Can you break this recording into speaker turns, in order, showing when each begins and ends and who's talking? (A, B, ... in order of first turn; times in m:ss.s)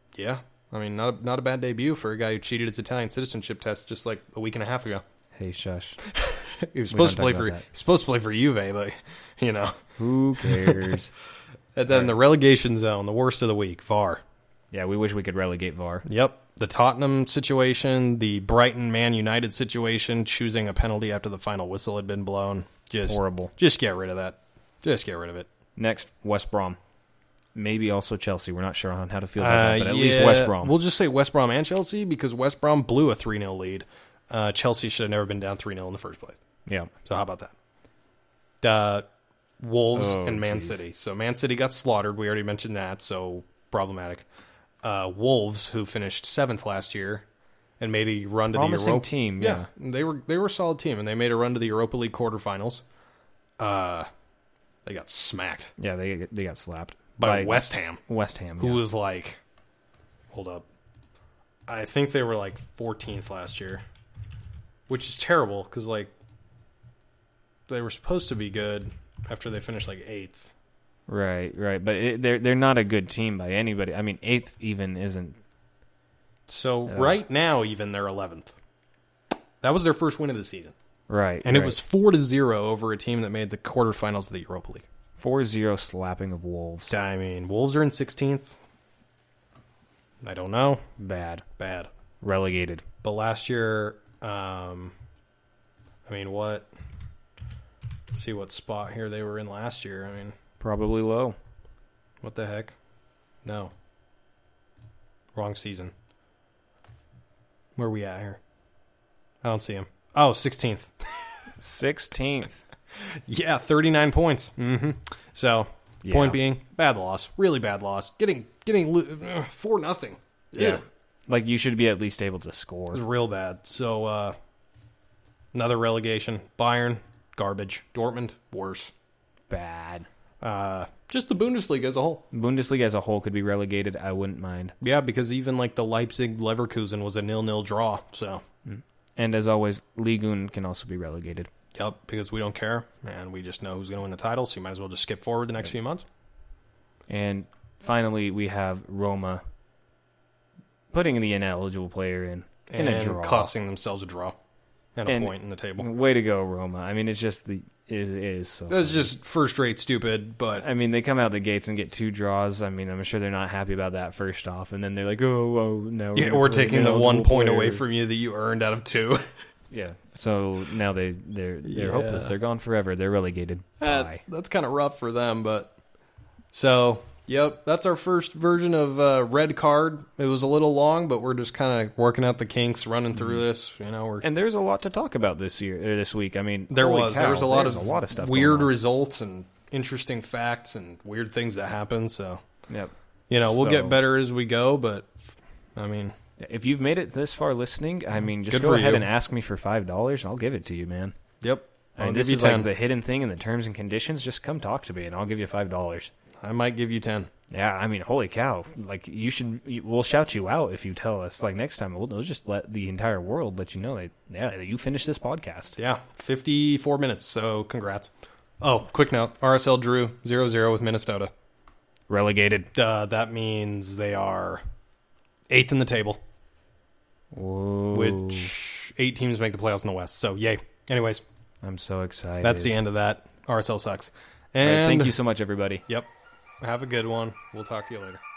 0:00.1-0:05.0 A
0:05.3-0:06.0 B
0:06.1-0:09.8 A
0:06.8-0:07.6 B
0:10.0-0:11.1 B
0:10.4-0:10.8 A
0:11.7-0:14.2 A
0:14.7-0:16.0 B
0:16.0-0:25.5 A
0:23.1-0:23.5 B
0:25.8-0:26.8 B
0:27.5-0:30.7 B
0:29.4-0:36.4 A
0:36.7-0:36.9 B
0:37.0-0:37.5 A
0:38.6-0:39.1 A
0:39.6-0:44.2 A
0:39.9-0:40.8 B
0:44.8-0:47.2 A
0:47.8-0:52.8 A
0:48.5-0:49.7 B
0:53.6-0:54.1 A
0:54.8-0:55.7 A
0:55.8-0:58.8 B
0:57.2-0:58.0 A
0:58.6-0:59.4 A
1:00.3-1:00.6 A
1:01.7-1:03.8 A
1:04.9-1:06.1 A
1:07.7-1:10.5 A
1:11.1-1:15.4 B
1:16.5-1:18.5 A
1:16.9-1:17.2 B
1:19.6-1:20.7 A
1:21.1-1:21.8 B
1:21.4-1:24.8 A
1:25.2-1:26.9 B
1:26.9-1:28.6 A
1:30.2-1:30.8 A
1:31.0-1:31.4 B
1:31.6-1:31.9 A
1:32.2-1:32.8 B
1:33.0-1:34.9 A
1:36.0-1:36.7 A
1:38.1-1:40.4 A
1:40.6-1:41.4 B
1:42.2-1:42.7 A
1:43.4-1:43.7 A
1:45.3-1:45.9 A
1:47.8-1:48.4 A
1:49.4-1:50.9 A
1:51.6-1:52.6 B
1:53.0-2:00.8 A
1:56.0-1:56.4 B
2:00.6-2:03.0 B
2:02.9-2:04.4 A
2:05.5-2:08.9 A
2:09.5-2:10.1 B
2:10.4-2:12.2 A
2:12.3-2:14.7 B
2:14.8-2:18.4 A
2:18.6-2:21.5 B
2:21.7-2:26.0 A
2:27.1-2:29.4 B
2:30.9-2:33.5 B
2:32.7-2:34.4 A
2:34.9-2:35.9 A
2:35.0-2:39.1 B
2:38.7-2:40.6 A
2:40.5-2:47.8 B
2:46.1-2:49.2 A
2:49.7-2:54.2 B
2:51.6-2:52.3 A
2:53.8-2:55.7 A
2:56.5-3:04.2 A
3:04.2-3:08.7 B
3:06.7-3:12.4 A
3:12.7-3:14.0 B
3:13.3-3:16.1 A
3:16.4-3:21.2 B
3:18.5-3:19.1 A
3:21.4-3:22.7 A
3:22.0-3:26.1 B
3:26.4-3:27.3 A
3:27.5-3:35.8 B
3:35.8-3:41.3 A
3:42.1-3:42.7 B
3:42.7-3:44.6 A
3:45.5-3:46.2 A
3:47.3-3:48.5 B
3:47.9-3:51.2 A
3:51.6-3:52.7 B
3:52.4-3:55.2 A
3:54.6-3:55.8 B
3:56.6-3:58.2 A